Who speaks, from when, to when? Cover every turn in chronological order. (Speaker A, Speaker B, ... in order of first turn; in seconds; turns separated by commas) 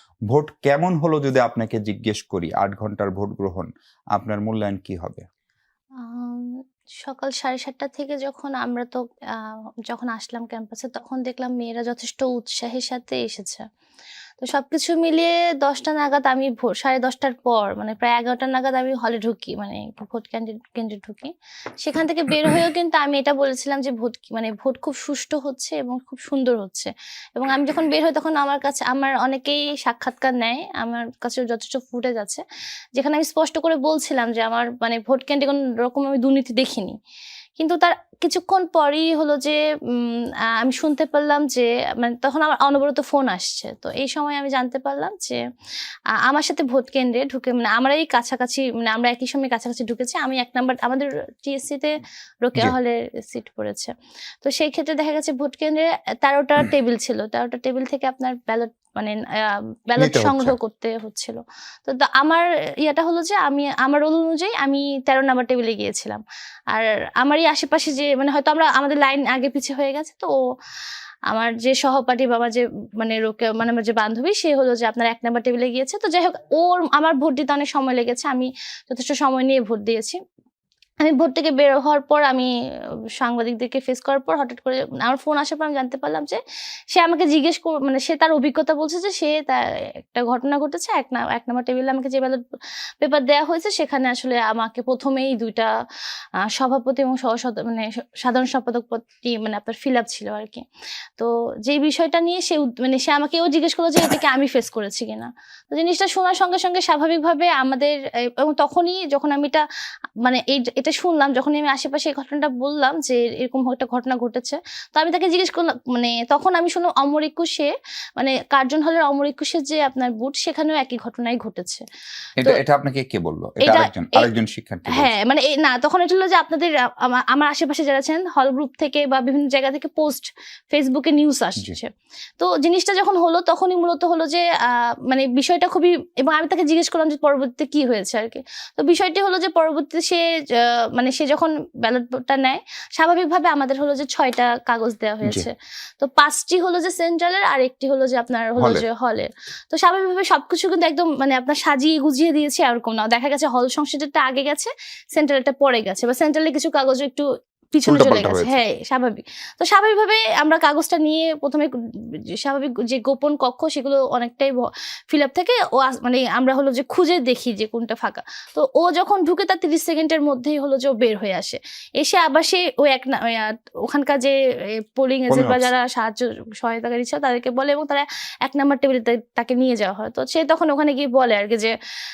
Speaker A: 0.3-5.2, Speaker B: 6.0-13.6, Speaker B: 14.4-32.4, Speaker B: 33.0-37.0, Speaker B: 37.6-45.4, Speaker B: 46.2-51.9, Speaker B: 52.4-70.4, Speaker A: 60.0-60.5, Speaker B: 71.3-80.2, Speaker B: 81.0-82.5, Speaker B: 83.2-86.4, Speaker B: 86.9-92.4, Speaker B: 93.0-95.7, Speaker B: 96.5-100.7, Speaker B: 101.2-109.6, Speaker B: 110.2-121.8, Speaker A: 122.4-125.1, Speaker B: 123.6-124.3, Speaker B: 124.9-161.7, Speaker A: 145.2-145.5, Speaker A: 148.6-148.8, Speaker A: 157.9-158.6, Speaker B: 162.4-181.7, Speaker A: 175.3-175.7